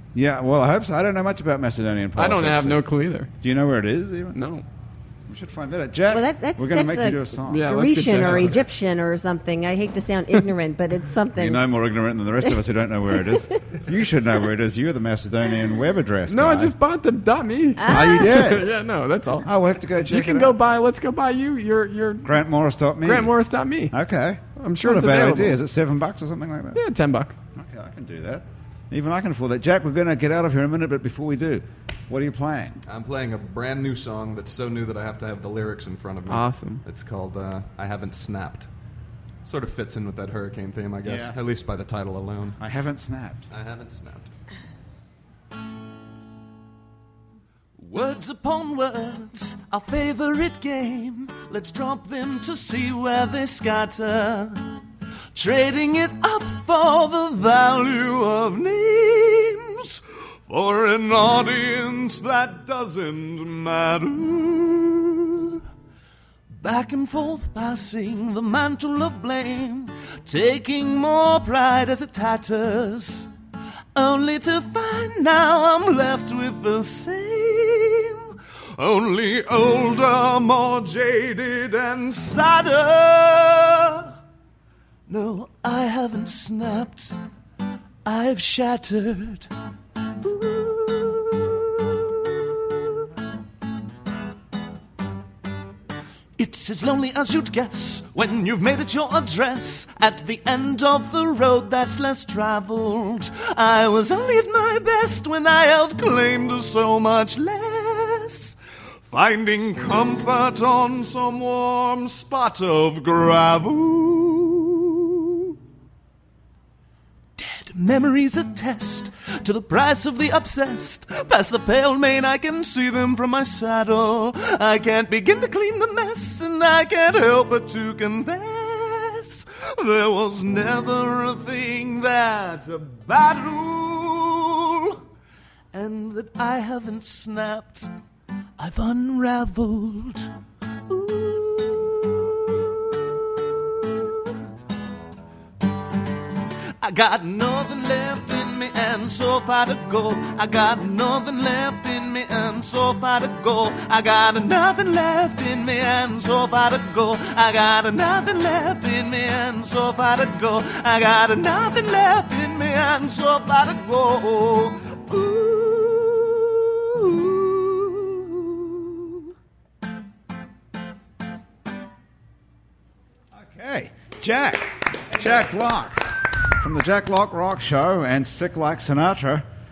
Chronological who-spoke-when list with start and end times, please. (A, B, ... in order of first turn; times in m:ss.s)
0:00.2-0:02.8 A
0:02.2-0:03.3 B
0:03.4-0:04.4 A
0:04.3-0:04.6 B
0:05.3-0:07.7 A
0:06.1-0:11.6 C
0:07.5-0:08.7 B
0:08.2-0:08.5 A
0:11.4-0:16.7 A
0:16.3-0:19.5 B
0:17.8-0:18.2 C
0:17.9-0:18.7 A
0:19.4-0:20.6 A
0:20.1-0:22.3 B
0:22.2-0:23.3 A
0:23.0-0:24.0 B
0:23.9-0:26.8 A
0:24.6-0:25.6 B
0:26.8-0:27.4 B
0:27.6-0:32.8 A
0:32.9-0:38.7 D
0:36.3-0:36.8 B
0:39.4-0:42.6 D
0:41.0-0:41.4 A
0:42.6-0:43.5 A
0:43.5-0:44.3 D
0:47.8-0:54.6 E
0:55.3-1:05.6 E
1:06.6-1:13.3 E
1:14.0-1:24.1 E
1:25.1-1:27.2 E
1:28.0-1:29.5 E
1:30.2-1:33.1 E
1:36.4-1:55.5 E
1:57.4-2:15.0 E
2:15.7-2:17.9 E
2:18.6-2:20.3 E
2:20.9-2:24.3 E
2:26.8-2:49.3 E
2:53.3-2:59.4 A